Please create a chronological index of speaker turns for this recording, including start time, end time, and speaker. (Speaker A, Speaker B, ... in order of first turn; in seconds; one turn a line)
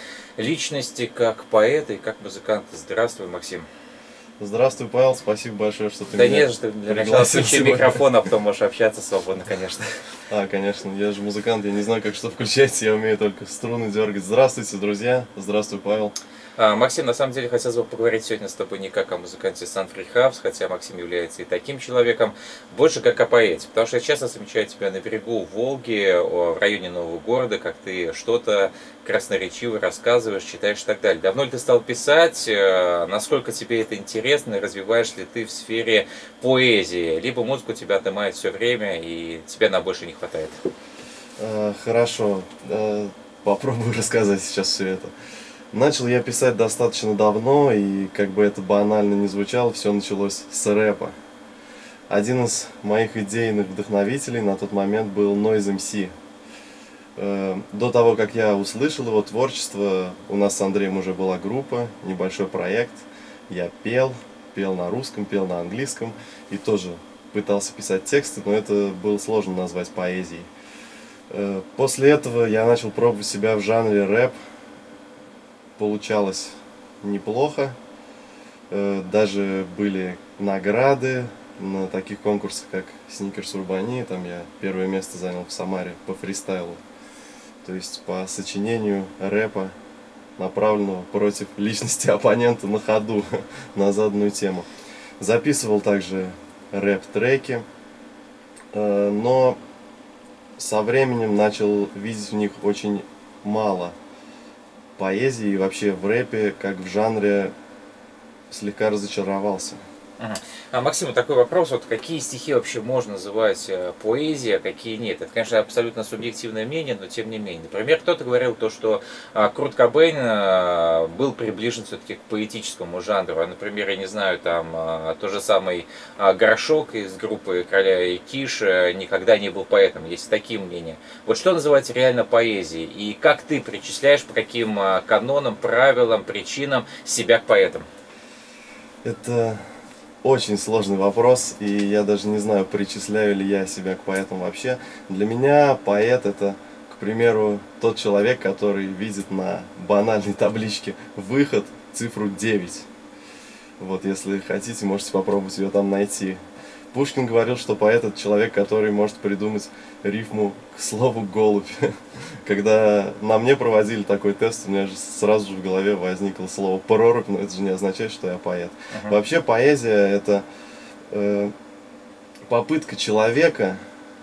Speaker A: 0.4-3.6
Speaker B: 4.4-8.1
Speaker A: 6.1-10.1
Speaker B: 10.3-16.1
Speaker A: 16.6-40.6
Speaker B: 41.4-45.1
Speaker B: 45.7-51.1
Speaker B: 52.1-56.1
Speaker B: 57.1-70.5
Speaker B: 71.3-74.3
Speaker B: 75.8-77.8
Speaker B: 78.7-86.8
Speaker B: 87.6-89.7
Speaker B: 90.4-94.7
Speaker B: 95.2-97.6
Speaker B: 98.7-99.6
Speaker B: 100.6-104.0
Speaker B: 105.0-107.5
Speaker B: 108.5-109.8
Speaker A: 110.2-137.9
Speaker B: 139.0-139.7
Speaker B: 140.2-152.9
Speaker B: 153.8-156.4
Speaker B: 156.9-170.4
Speaker A: 168.9-169.2
Speaker B: 171.1-171.5
Speaker B: 172.5-173.8